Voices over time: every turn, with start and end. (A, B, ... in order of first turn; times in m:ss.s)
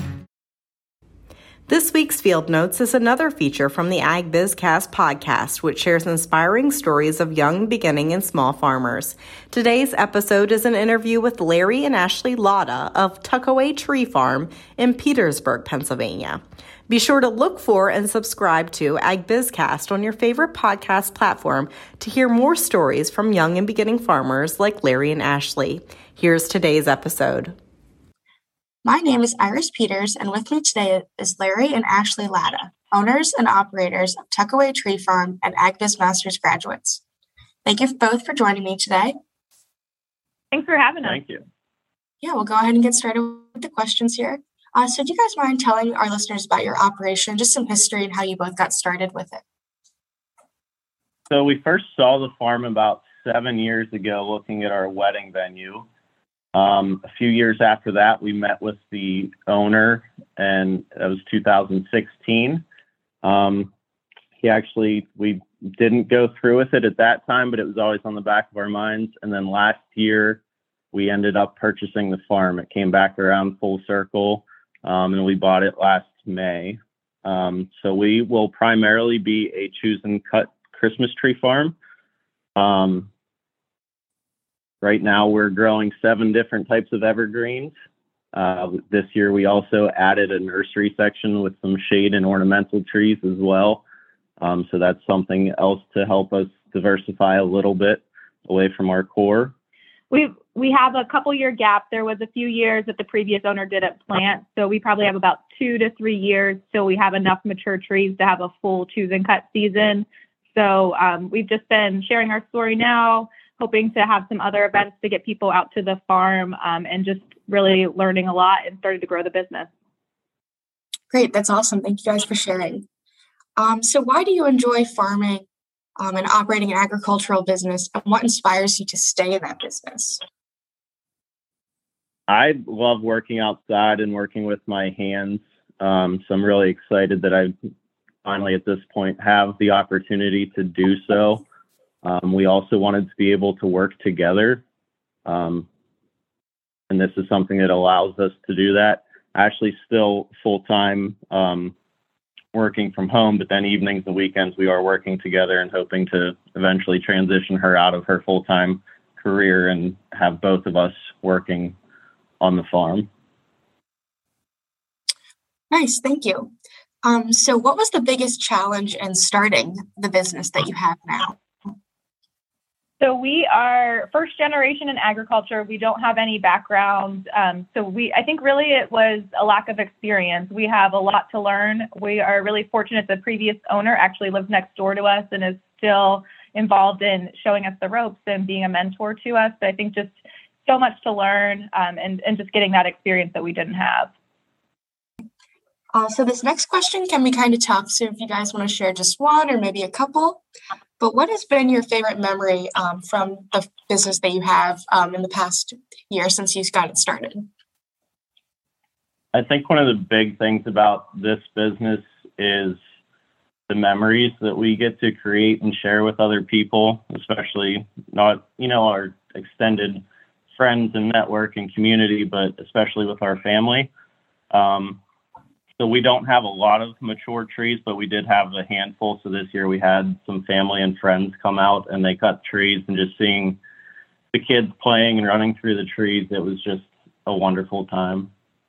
0:01.7-0:27.5 A
0:28.8-0:37.0 B
0:37.6-0:39.1 B
0:40.5-0:41.3 C
0:41.0-0:41.4 D
0:42.2-0:49.4 B
0:51.3-0:55.9 D
0:56.5-1:02.6 D
1:03.2-1:03.7 D
1:04.4-1:10.4 D
1:10.9-1:21.8 D
1:22.6-1:23.1 D
1:24.8-1:27.7 D
1:28.3-1:33.8 D
1:34.4-1:39.5 D
1:40.1-1:59.7 C
2:01.1-2:02.8 B
2:03.6-2:05.4 B
2:06.0-2:10.2 B
2:12.3-2:17.5 D
2:18.2-2:21.4 D
2:22.0-2:24.6 D
2:25.2-2:25.7 D
2:26.9-2:31.7 D
2:32.5-2:41.8 D
2:42.4-2:43.1 D
2:45.7-2:46.5 B
2:47.0-2:51.4 B
2:53.0-3:14.1 C
3:15.9-3:20.4 B
3:21.0-3:27.5 B
3:29.3-3:32.8 D
3:33.7-3:43.9 D
3:44.5-3:45.0 D
3:45.8-3:53.6 D
3:54.3-3:58.3 D